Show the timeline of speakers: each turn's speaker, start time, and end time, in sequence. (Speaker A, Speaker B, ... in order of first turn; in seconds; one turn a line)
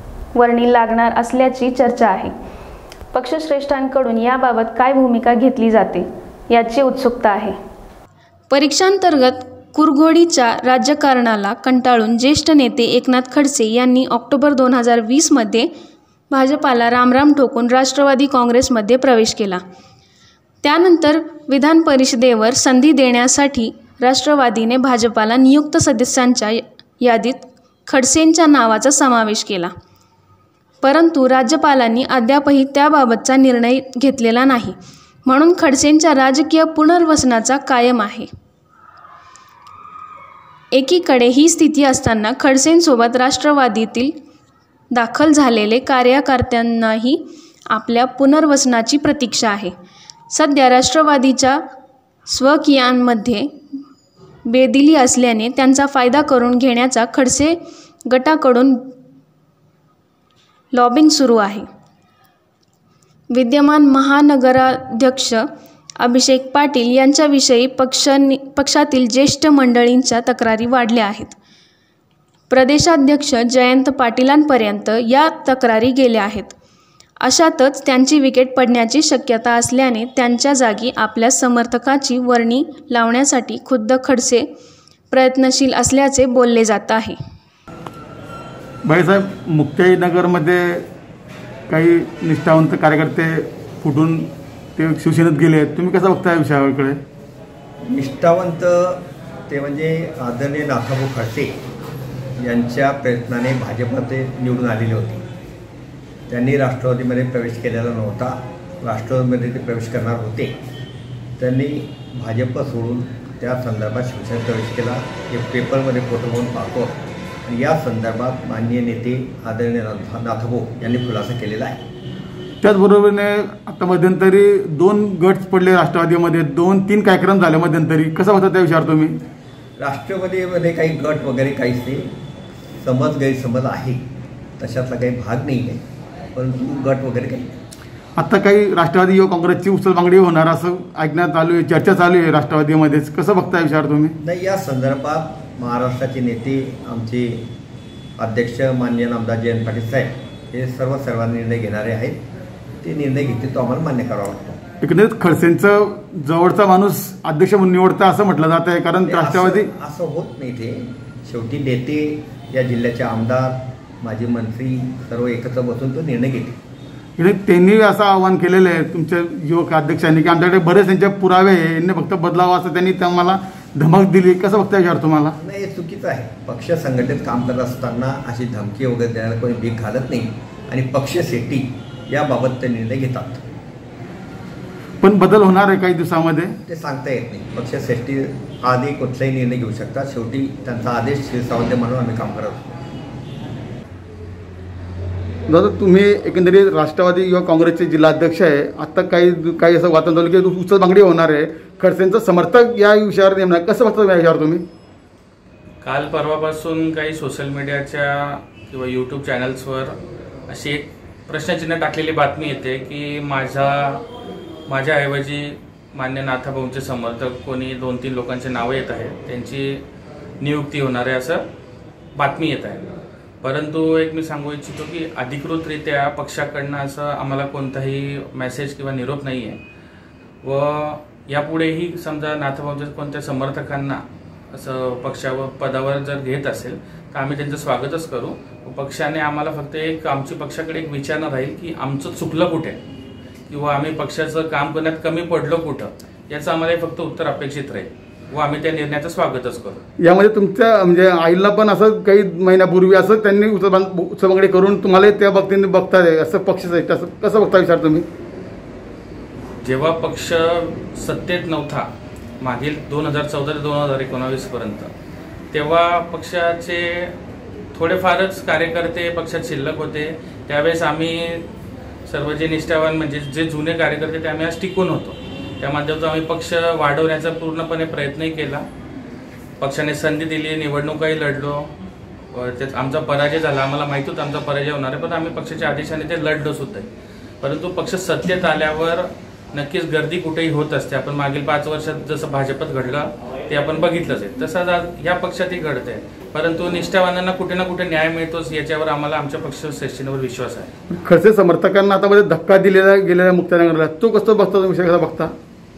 Speaker A: 0.3-2.3
Speaker A: 3.1-7.5
Speaker A: 8.5-15.7
Speaker A: 16.3-19.6
Speaker A: 20.6-29.7
Speaker A: 30.8-38.3
Speaker A: 40.7-44.1
Speaker A: 44.9-49.7
Speaker A: 50.3-51.6
Speaker A: 52.3-53.5
Speaker A: 54.5-57.6
Speaker A: 58.1-58.9
Speaker A: 60.7-61.6
Speaker A: 63.3-65.5
Speaker A: 66.0-71.4
Speaker A: 72.5-76.5
Speaker A: 77.2-84.5
Speaker A: 85.1-87.2
Speaker B: 88.8-90.8
Speaker B: 91.7-97.0
Speaker C: 97.8-101.6
Speaker C: 102.4-105.2
Speaker C: 106.3-110.5
Speaker C: 111.4-121.8
Speaker B: 122.6-129.2
Speaker C: 129.8-132.1
Speaker C: 132.8-134.0
Speaker C: 134.6-135.8
Speaker C: 136.3-137.5
Speaker B: 138.2-144.2
Speaker C: 144.2-147.5
Speaker C: 148.2-152.2
Speaker C: 152.8-154.6
Speaker B: 154.8-159.7
Speaker C: 159.1-166.6
Speaker B: 167.2-175.3
Speaker C: 175.4-183.4
Speaker B: 185.0-186.6
Speaker C: 186.7-192.7
Speaker B: 195.5-204.7
Speaker D: 205.8-210.0
Speaker D: 210.5-214.0
Speaker D: 214.7-219.8
Speaker D: 220.4-221.4
Speaker D: 222.2-222.8
Speaker D: 223.4-229.6
Speaker D: 230.4-234.0
Speaker D: 234.5-242.8
Speaker D: 243.5-249.8
Speaker B: 250.0-258.1
Speaker D: 259.6-261.9
Speaker D: 262.4-264.9
Speaker D: 265.5-267.1
Speaker D: 267.7-271.5
Speaker D: 272.1-278.6
Speaker D: 279.6-281.7
Speaker D: 282.3-286.9
Speaker D: 287.4-300.7
Speaker B: 301.0-305.3